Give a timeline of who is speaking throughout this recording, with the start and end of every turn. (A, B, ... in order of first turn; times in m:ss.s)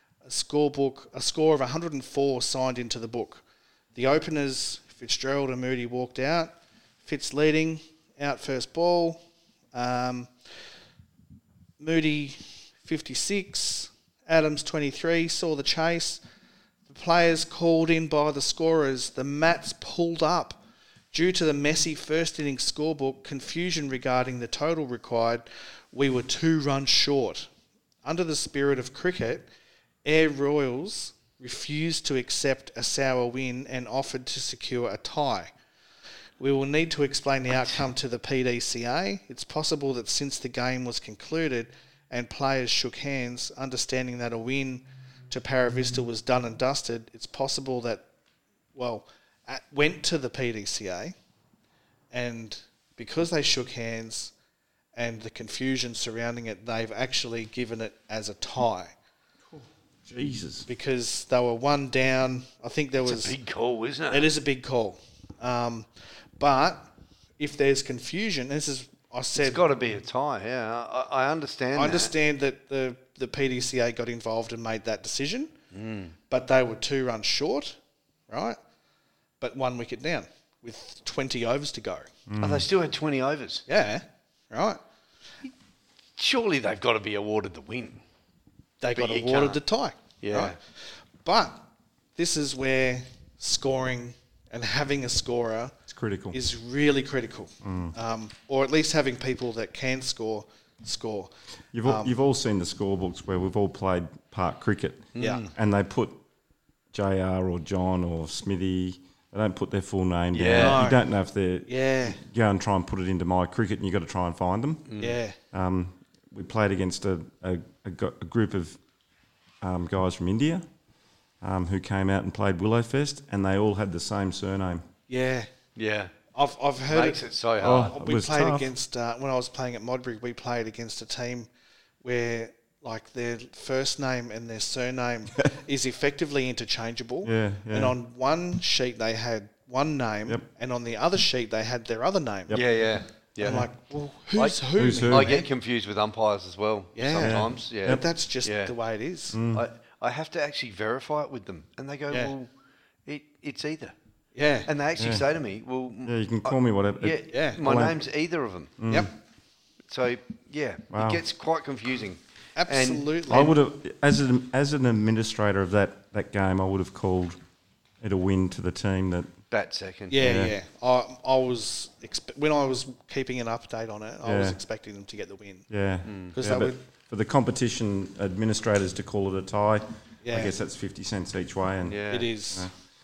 0:00.2-0:03.4 A
0:03.9-0:06.5 A
0:07.0-0:09.2 A
0:09.7-0:10.3 A
0:11.8-0:16.2 A
0:16.9-0:20.6 A
0:21.1-0:27.5 A
0:28.0-0:29.4 A
0:30.0-0:35.5 A
0:36.4-0:48.0 A
0:48.7-0:51.1 A
0:52.1-0:54.3 A
0:54.9-0:58.9 A
0:59.5-1:00.6 B
1:00.7-1:03.3 A
1:03.0-1:04.3 C
1:04.1-1:09.6 A
1:09.4-1:12.1 C
1:11.7-1:15.5 A
1:15.7-1:16.1 C
1:16.3-1:17.8 A
1:18.3-1:18.6 A
1:19.4-1:22.1 A
1:22.3-1:22.7 B
1:22.4-1:23.6 C
1:23.7-1:24.8 A
1:26.2-1:28.0 C
1:28.8-1:30.6 A
1:28.9-1:29.6 C
1:30.2-1:30.6 C
1:31.2-1:35.8 A
1:35.9-1:36.4 B
1:36.3-1:41.3 A
1:37.6-1:37.9 B
1:41.7-1:46.2 B
1:41.8-1:42.1 A
1:45.1-1:45.5 C
1:45.2-1:45.4 A
1:46.9-1:54.8 B
1:50.3-1:50.8 C
1:50.5-1:51.0 A
1:51.7-1:52.2 A
1:54.9-1:55.2 C
1:55.0-1:55.4 A
1:55.5-1:58.8 B
1:59.6-2:00.6 B
2:01.4-2:04.8 B
2:05.1-2:05.5 A
2:05.8-2:06.1 C
2:06.3-2:11.5 A
2:06.9-2:07.9 C
2:07.6-2:08.7 B
2:12.0-2:22.6 A
2:17.2-2:17.9 B
2:22.5-2:23.7 C
2:23.4-2:25.5 A
2:24.4-2:28.7 C
2:24.8-2:25.4 B
2:27.0-2:29.4 A
2:27.2-2:28.0 B
2:29.3-2:29.6 B
2:29.5-2:32.5 C
2:33.0-2:33.9 C
2:34.3-2:34.7 A
2:34.6-2:38.8 C
2:35.0-2:35.2 B
2:36.0-2:38.0 B
2:37.3-2:37.6 A
2:38.8-2:39.1 B
2:39.9-2:43.1 C
2:40.9-2:41.2 B
2:42.6-2:43.6 A
2:43.3-2:47.4 B
2:48.0-2:49.3 B
2:49.5-2:50.2 C
2:50.1-2:55.6 A
2:50.2-2:50.5 B
2:54.2-2:54.6 B
2:55.7-3:02.7 B
2:56.0-2:56.3 C
2:56.3-2:56.8 A
3:00.2-3:00.5 A
3:01.9-3:02.3 C
3:02.1-3:02.7 A